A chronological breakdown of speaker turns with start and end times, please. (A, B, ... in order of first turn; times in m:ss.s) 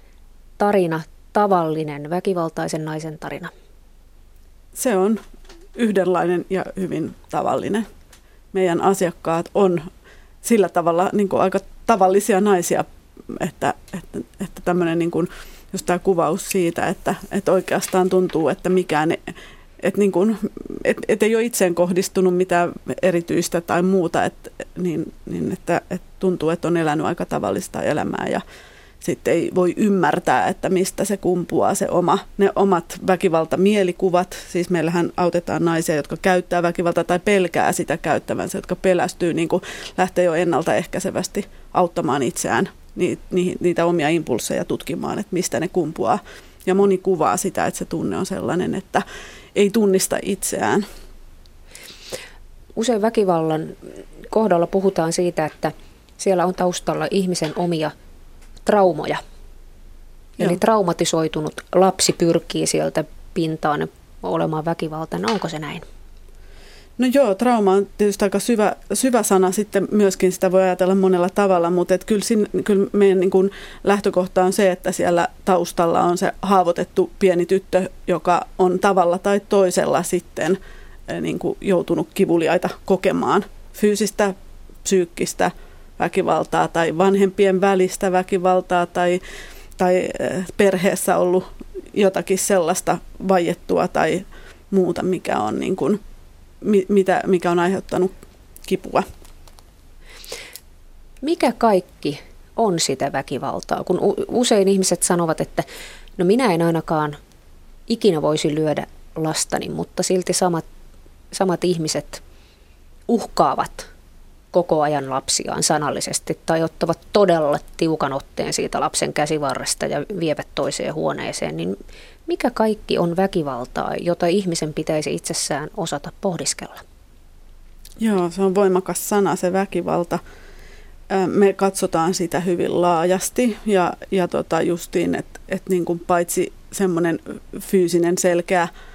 0:00.6-0:03.5 A
0:04.8-0:05.2 B
0:05.8-0:07.9 B
0:08.5-0:09.9 B
0:10.4-0:28.4 B
0:29.0-0:49.0 B
0:49.6-0:50.8 B
0:52.8-0:57.9 A
0:58.7-0:59.2 A
1:00.4-1:05.8 A
1:07.0-1:29.2 B
1:29.8-1:36.0 B
1:36.6-1:38.1 B
1:38.6-1:39.0 B
1:41.2-1:45.7 A
1:46.2-1:47.2 A
1:47.9-1:50.6 A
1:51.3-1:52.2 A
1:53.1-1:53.9 A
1:54.5-2:06.8 A
2:08.0-2:10.2 B
2:11.1-2:18.7 B